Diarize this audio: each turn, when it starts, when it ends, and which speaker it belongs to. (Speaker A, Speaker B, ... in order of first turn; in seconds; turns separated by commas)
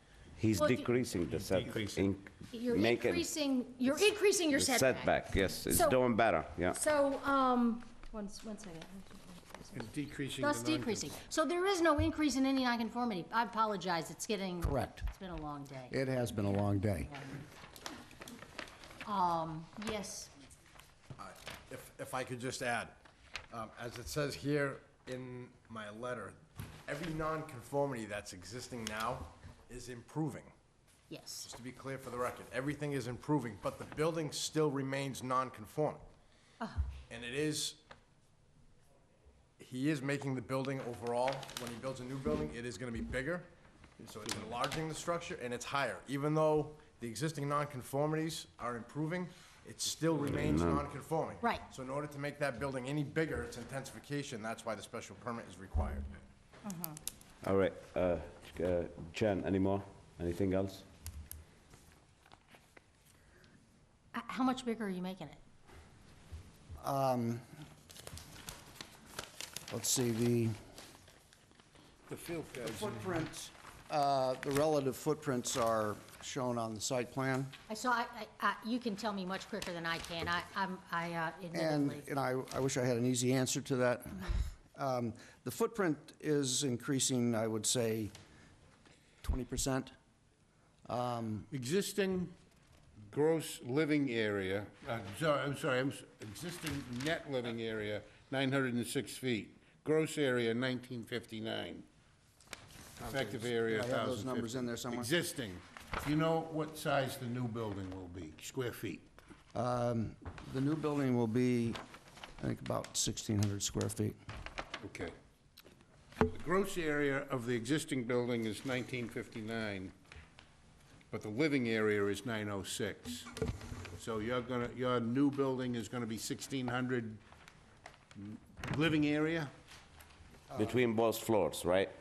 Speaker A: 0.4-3.3, Speaker B: 0.6-0.9, Speaker C: 1.4-2.0, Speaker B: 2.5-6.0, Speaker A: 4.5-6.8, Speaker B: 6.7-9.9, Speaker C: 9.7-11.2, Speaker B: 10.4-15.9, Speaker D: 14.6-15.1, Speaker D: 15.9-17.3, Speaker B: 19.1-20.3, Speaker E: 21.2-23.0, Speaker E: 23.5-30.5, Speaker B: 31.1-31.5, Speaker E: 31.4-36.0, Speaker E: 37.1-37.8, Speaker E: 39.6-56.1, Speaker A: 50.2-50.9, Speaker B: 56.6-57.0, Speaker A: 57.4-60.9, Speaker B: 64.1-65.4, Speaker D: 66.8-67.5, Speaker D: 69.7-70.6, Speaker C: 72.1-73.0, Speaker D: 72.6-77.5, Speaker B: 77.7-82.1, Speaker D: 81.5-88.1, Speaker D: 89.2-89.9, Speaker D: 90.9-91.5, Speaker C: 91.5-92.3, Speaker C: 93.1-101.8, Speaker C: 103.0-109.1, Speaker D: 103.6-105.1, Speaker D: 109.5-111.8, Speaker D: 112.4-114.2, Speaker C: 114.8-115.1, Speaker C: 116.2-119.9, Speaker C: 121.1-123.3, Speaker C: 124.0-127.2, Speaker C: 128.2-129.5, Speaker D: 130.5-130.8, Speaker A: 130.6-131.9